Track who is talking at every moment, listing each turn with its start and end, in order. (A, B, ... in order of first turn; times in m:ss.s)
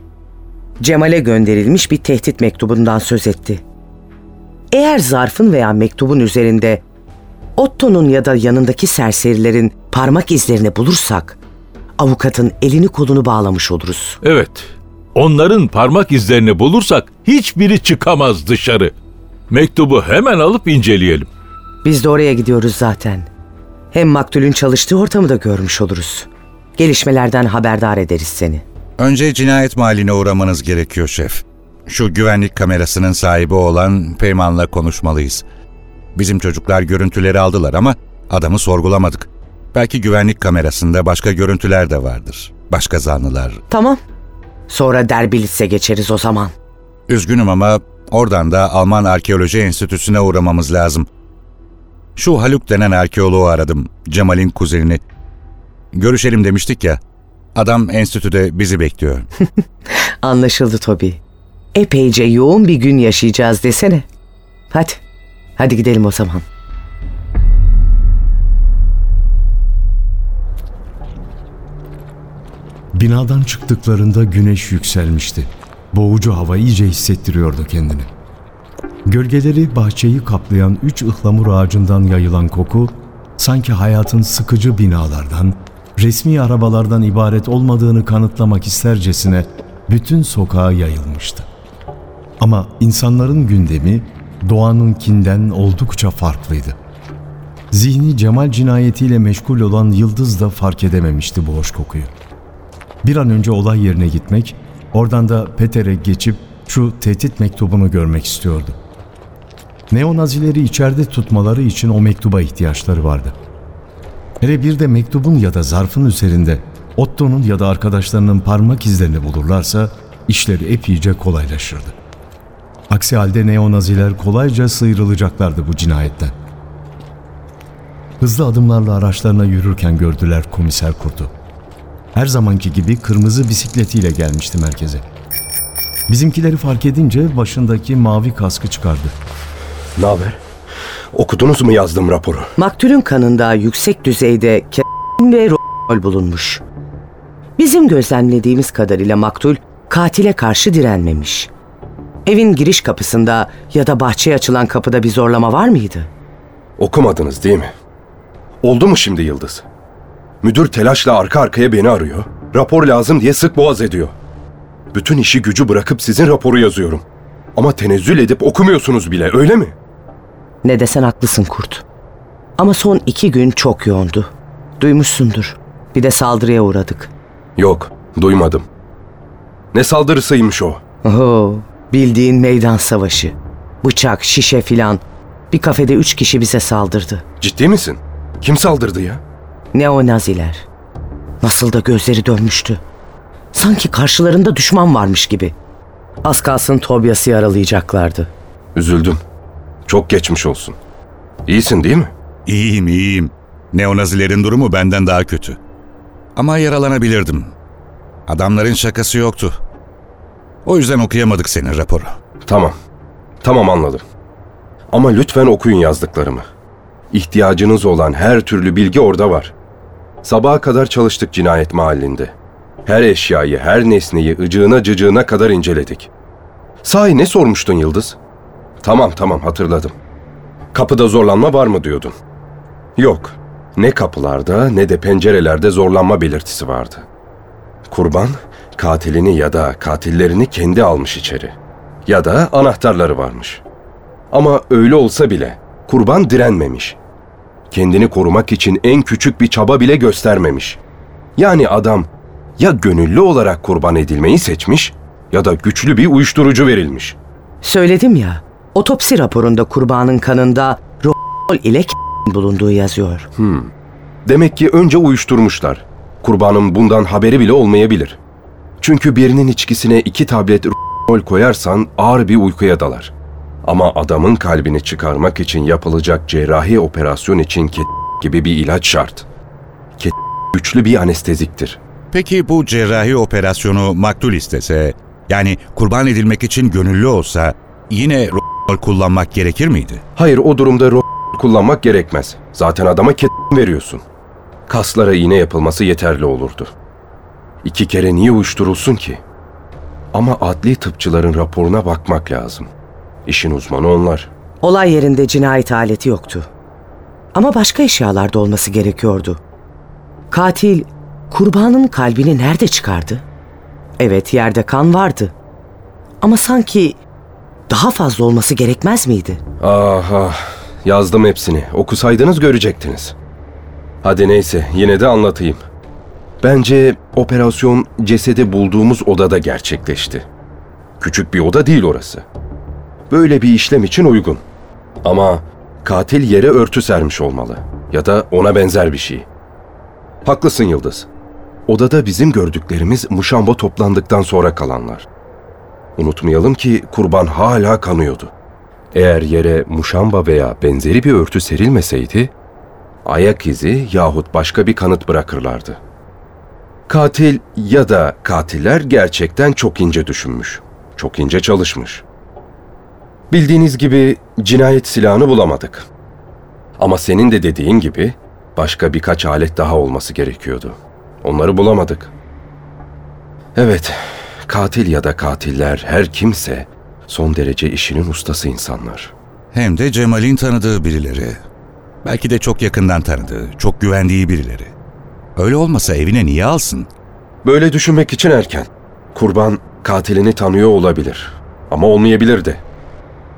0:00.8-0:03.6 A
0:04.7-0:06.8 A
0:07.6-0:11.4 A
0:12.0-0:14.2 A
0:14.2-0:18.9 B
0:19.5-0:21.3 B
0:21.8-0:23.3 A
0:23.9-0:28.6 A
0:29.0-0:35.4 C
0:36.2-0:43.6 C
0:43.7-0:44.0 A
0:44.7-0:46.5 A
0:47.1-0:51.1 C
0:52.2-0:55.0 C
0:55.9-0:57.0 C
0:57.6-0:59.3 C
0:59.9-1:01.2 A
1:01.7-1:04.0 A
1:04.7-1:05.0 A
1:05.6-1:06.4 A
1:12.9-1:18.1 D
1:19.1-1:31.5 D
1:32.4-1:36.8 D
1:37.7-1:42.1 D
1:43.0-1:48.8 D
1:49.9-1:53.4 D
1:54.4-2:02.0 D
2:02.9-2:06.3 D
2:08.2-2:11.3 D
2:12.1-2:15.0 D
2:16.1-2:19.1 D
2:20.0-2:20.4 E
2:21.1-2:22.5 E
2:22.6-2:26.6 A
2:27.6-2:31.5 A
2:32.3-2:36.1 A
2:36.8-2:37.7 E
2:38.6-2:39.6 E
2:40.4-2:44.2 E
2:44.9-2:47.0 E
2:47.6-2:49.8 E
2:50.6-2:51.8 A
2:52.6-2:57.1 A
2:57.6-2:58.7 E
2:59.7-3:00.8 E
3:01.0-3:07.2 A
3:07.4-3:09.2 E
3:09.7-3:10.7 A
3:11.4-3:12.8 A
3:13.5-3:15.6 A
3:16.2-3:18.3 A
3:18.8-3:19.2 E
3:19.9-3:20.8 E
3:21.5-3:22.1 E
3:22.5-3:25.6 C
3:26.4-3:27.5 C
3:28.3-3:29.5 C
3:30.7-3:32.2 C
3:32.5-3:32.7 E
3:33.4-3:34.0 E
3:34.9-3:36.4 E
3:37.1-3:39.5 E
3:40.2-3:42.4 E
3:42.9-3:46.1 E
3:46.8-3:48.2 E
3:48.8-3:50.0 E
3:50.7-3:52.2 E
3:53.0-3:57.1 E
3:57.9-4:03.6 E
4:04.3-4:07.0 E
4:07.7-4:10.8 E
4:11.4-4:17.2 E
4:17.6-4:23.3 A
4:23.4-4:23.7 E
4:24.3-4:28.2 E
4:28.8-4:33.1 E
4:33.6-4:39.2 E
4:40.0-4:41.8 E
4:42.1-4:50.0 C
4:50.2-4:54.0 E
4:54.7-4:56.7 E
4:57.6-4:59.2 E
5:00.1-5:02.7 E
5:03.3-5:04.3 E
5:04.6-5:06.5 A
5:07.3-5:09.4 A
5:10.3-5:13.3 A
5:14.0-5:15.4 A
5:16.2-5:17.0 A
5:17.7-5:19.4 A
5:19.6-5:23.2 E
5:24.0-5:25.6 E
5:26.4-5:30.3 E
5:31.0-5:32.3 E
5:33.1-5:34.4 E
5:35.0-5:39.3 E
5:40.2-5:41.1 E
5:41.7-5:45.1 E
5:46.0-5:48.3 E
5:48.9-5:52.3 E
5:53.0-5:55.8 E
5:56.9-6:02.0 E
6:03.3-6:05.9 E
6:06.8-6:12.1 E
6:13.6-6:19.1 E
6:19.5-6:21.4 C
6:22.0-6:24.7 C
6:25.4-6:26.9 C
6:27.4-6:32.6 E